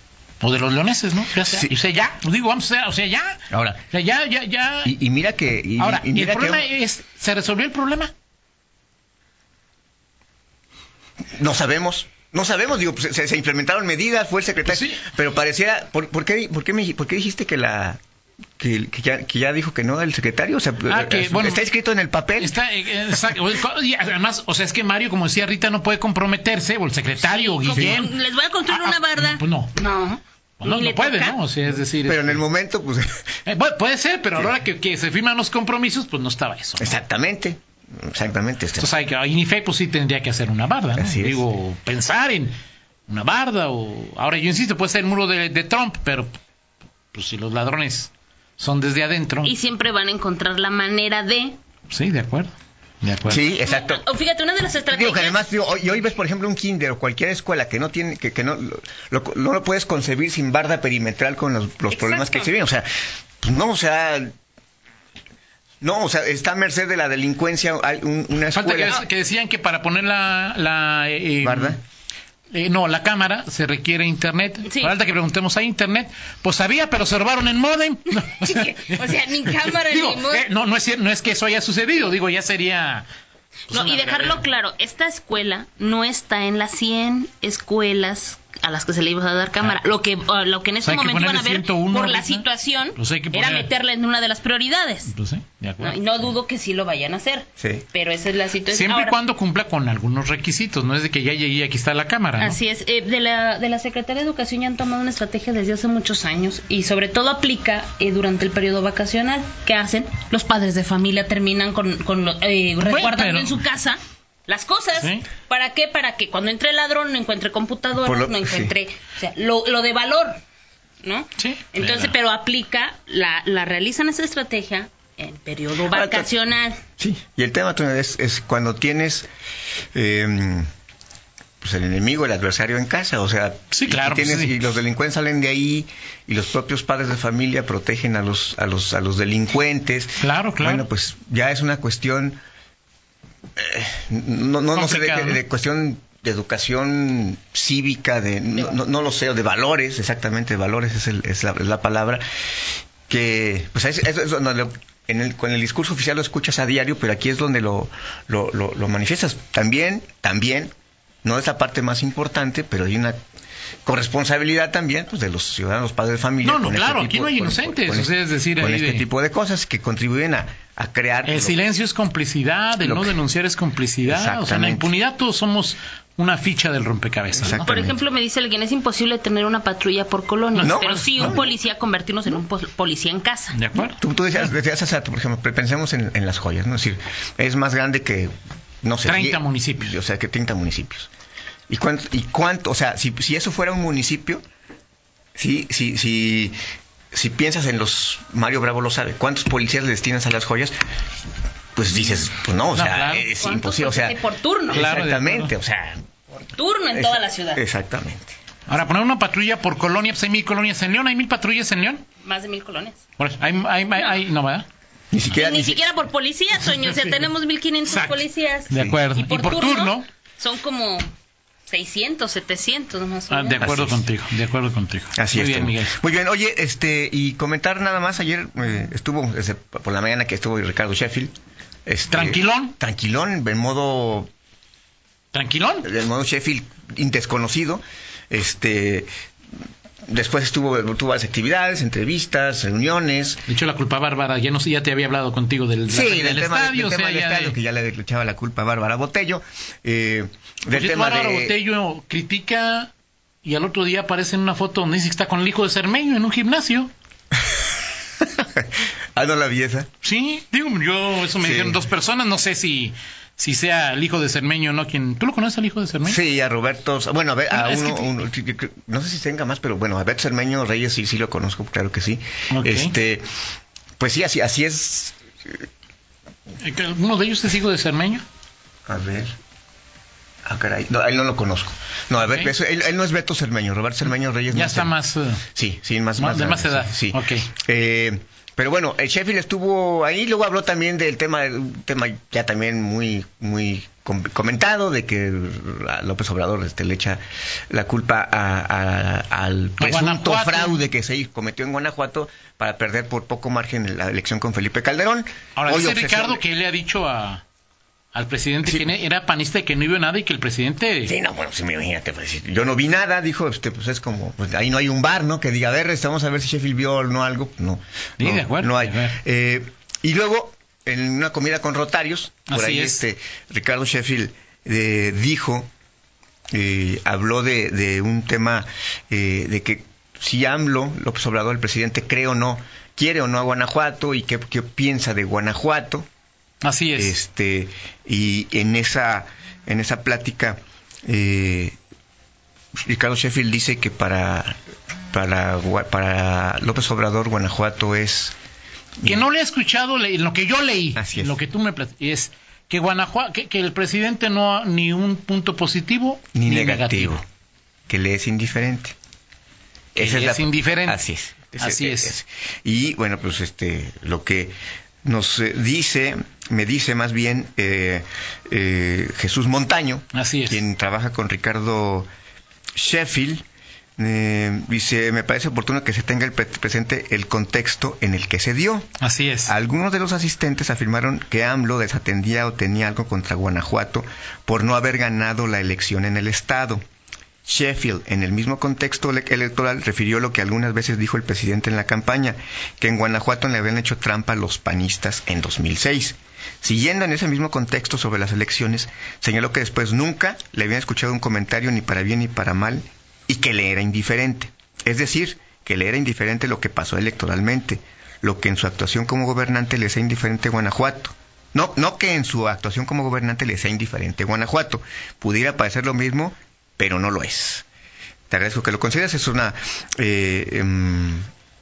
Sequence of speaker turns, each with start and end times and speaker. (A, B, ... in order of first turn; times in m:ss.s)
0:00.4-0:05.0 A
0:01.4-0:01.8 B
0:03.5-0:03.8 B
0:04.8-0:06.7 B
0:05.8-0:08.1 A
0:11.3-0:18.0 B
0:14.7-0:15.0 A
0:18.6-0:22.6 B
0:20.8-0:21.6 A
0:22.4-0:28.1 A
0:27.2-0:31.4 C
0:27.7-0:28.0 B
0:28.7-0:29.8 A
0:30.6-0:32.4 A
0:31.8-0:33.2 B
0:33.4-0:37.0 A
0:36.8-0:38.9 B
0:38.8-0:42.5 A
0:41.0-0:41.4 B
0:43.1-0:46.4 A
0:47.1-0:49.5 A
0:49.4-0:51.6 C
0:51.9-0:53.4 A
0:53.2-0:54.0 B
0:53.6-0:55.4 C
0:54.9-1:02.9 B
1:01.9-1:02.5 C
1:03.4-1:04.3 B
1:05.8-1:09.0 B
1:08.5-1:11.8 A
1:11.4-1:11.8 B
1:12.5-1:23.1 A
1:14.6-1:14.9 C
1:18.2-1:20.5 C
1:23.7-1:24.4 A
1:23.7-1:35.1 C
1:30.8-1:33.7 A
1:35.1-1:36.2 A
1:35.8-1:39.2 C
1:37.6-1:37.8 B
1:38.7-1:42.6 A
1:42.4-2:00.4 C
1:52.8-1:53.6 A
1:54.9-1:55.2 A
1:58.0-1:58.7 B
2:01.0-2:06.8 C
2:01.4-2:02.1 A
2:05.9-2:06.3 B
2:07.0-2:09.3 B
2:09.9-2:10.7 B
2:11.6-2:22.4 B
2:13.7-2:14.6 A
2:20.2-2:20.9 A
2:23.6-2:32.2 B
2:24.7-2:25.4 A
2:33.1-2:40.7 B
2:41.2-2:43.2 B
2:43.8-2:51.6 B
2:46.4-2:49.1 A
2:51.2-2:57.6 A
2:52.8-2:53.2 B
2:54.0-2:54.9 B
2:57.4-2:58.0 B
2:57.6-3:03.6 C
3:00.5-3:01.4 A
3:00.6-3:01.4 B
3:03.5-3:04.5 A
3:03.7-3:11.1 B
3:09.0-3:10.0 A
3:11.7-3:14.4 B
3:15.4-3:16.5 B
3:17.1-3:20.7 B
3:21.8-3:24.2 B
3:22.7-3:23.3 A
3:23.4-3:24.9 C
3:24.7-3:26.0 B
3:24.7-3:25.5 A
3:26.5-3:27.6 C
3:26.9-3:28.3 B
3:28.7-3:32.0 A
3:32.2-3:33.0 C
3:33.2-3:34.7 A
3:35.1-3:35.8 B
3:35.3-3:41.0 C
3:36.8-3:37.2 A
3:37.9-3:40.0 A
3:38.7-3:39.0 B
3:41.7-3:43.6 C
3:43.3-3:45.9 A
3:43.6-3:44.1 B
3:45.2-3:51.3 B
3:51.8-3:54.3 B
3:52.1-3:52.7 A
3:55.3-3:55.9 A
3:55.8-3:59.1 B
4:00.1-4:03.4 B
4:03.5-4:07.6 A
4:05.9-4:11.6 B
4:10.7-4:12.9 A
4:13.4-4:16.9 A
4:18.2-4:19.9 B
4:20.0-4:26.2 A
4:21.4-4:21.8 B
4:26.0-4:33.3 B
4:27.5-4:28.2 A
4:32.5-4:32.9 A
4:34.0-4:35.6 B
4:36.6-4:38.2 A
4:38.9-4:39.3 B
4:40.4-4:45.0 B
4:42.2-4:42.5 A
4:44.5-4:45.4 A
4:45.5-5:06.4 B
4:46.2-4:47.5 A
4:59.8-5:00.8 A
5:05.6-5:07.4 A
5:08.1-5:11.1 A
5:11.0-5:25.7 B
5:18.2-5:19.2 A
5:22.5-5:23.0 A
5:26.5-5:36.0 B
5:36.6-5:37.2 A
5:37.0-5:41.8 B
5:42.8-5:44.6 B
5:45.1-5:48.3 B
5:49.0-5:57.2 A
5:51.0-5:51.4 B
5:56.3-5:57.2 B
5:57.9-5:58.9 B
5:59.9-6:12.1 B
6:00.0-6:01.0 A
6:01.6-6:02.2 A
6:10.1-6:10.6 A
6:12.8-6:13.4 B
6:14.0-6:18.9 B
6:19.0-6:19.5 A
6:19.4-6:26.8 B
6:27.4-6:57.6 B
6:58.3-7:01.3 B